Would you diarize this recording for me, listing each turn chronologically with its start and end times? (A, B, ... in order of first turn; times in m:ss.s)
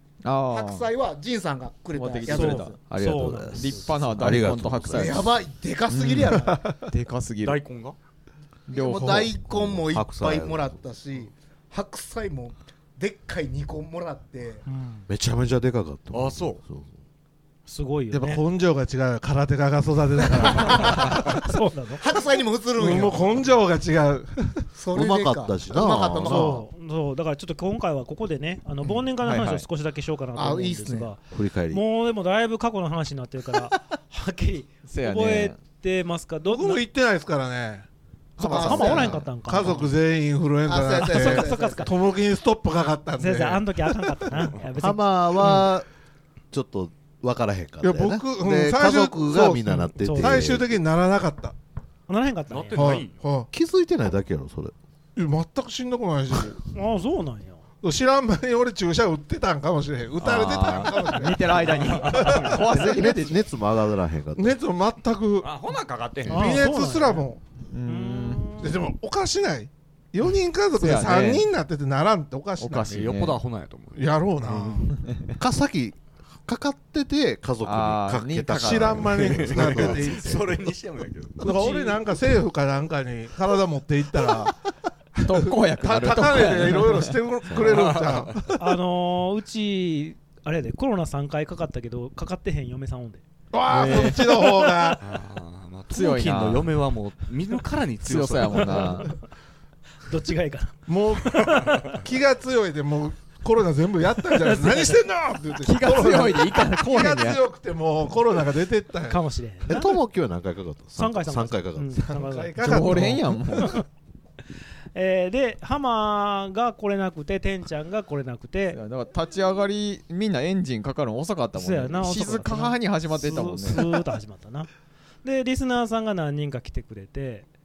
0:00.2-0:00.9 A
0:00.5-0:02.8 B
0:01.9-0:05.3 A
0:02.3-0:04.1 C
0:03.2-0:05.3 D
0:04.9-0:06.7 B
0:06.3-0:06.8 E
0:06.9-0:07.6 A
0:07.4-0:08.0 F
0:08.7-0:14.6 B
0:08.7-0:09.4 A
0:09.4-0:10.8 D
0:14.7-0:15.1 C
0:15.1-0:16.9 D
0:16.1-0:16.6 F
0:17.7-0:18.4 C
0:18.1-0:21.4 E
0:20.4-0:21.2 B
0:21.4-0:22.0 C
0:22.0-0:23.5 B
0:22.8-0:24.6 E
0:24.7-0:26.6 B
0:24.9-0:26.6 D
0:26.2-0:36.8 C
0:29.2-0:29.7 A
0:30.4-0:31.1 B
0:31.3-0:31.8 D
0:34.9-0:35.6 A
0:36.5-0:37.9 E
0:38.4-0:39.2 A
0:38.4-0:39.9 C
0:38.4-0:39.8 B
0:38.6-0:44.5 E
0:40.7-0:41.9 B
0:41.0-0:41.9 C
0:43.2-0:45.6 C
0:44.7-0:45.9 D
0:46.5-0:50.7 D
0:47.8-0:51.6 E
0:50.0-0:50.4 C
0:52.1-0:53.0 C
0:52.5-0:53.2 F
0:52.8-0:53.5 E
0:53.5-0:54.7 D
0:55.2-0:56.6 E
0:56.7-0:57.6 C
0:57.8-1:02.4 E
1:00.2-1:03.5 A
1:01.6-1:02.5 C
1:02.7-1:04.6 D
1:04.4-1:05.5 E
1:05.4-1:06.6 F
1:06.3-1:07.4 E
1:06.3-1:07.3 C
1:07.7-1:08.6 A
1:07.9-1:08.8 C
1:08.6-1:13.0 E
1:10.8-1:11.5 A
1:12.6-1:13.4 A
1:12.9-1:14.2 F
1:14.0-1:14.9 E
1:14.9-1:15.3 A
1:15.4-1:20.5 D
1:17.6-1:20.1 A
1:18.6-1:20.4 E
1:19.2-1:21.8 F
1:21.4-1:24.5 E
1:21.6-1:21.9 C
1:25.2-1:27.2 A
1:25.3-1:28.6 E
1:27.5-1:27.8 D
1:27.6-1:28.3 F
1:28.6-1:33.2 C
1:33.5-1:35.0 E
1:33.7-1:34.5 A
1:35.0-1:39.0 F
1:35.9-1:36.8 A
1:38.0-1:39.1 A
1:38.6-1:39.2 C
1:40.1-1:42.0 C
1:40.9-1:49.2 E
1:44.4-1:45.0 C
1:45.6-1:47.4 A
1:49.1-1:50.0 C
1:49.7-1:52.2 D
1:51.0-1:53.9 C
1:52.1-1:53.4 E
1:52.6-1:53.8 A
1:55.0-1:58.8 C
1:58.7-2:03.9 A
2:01.6-2:04.7 C
2:05.2-2:07.5 C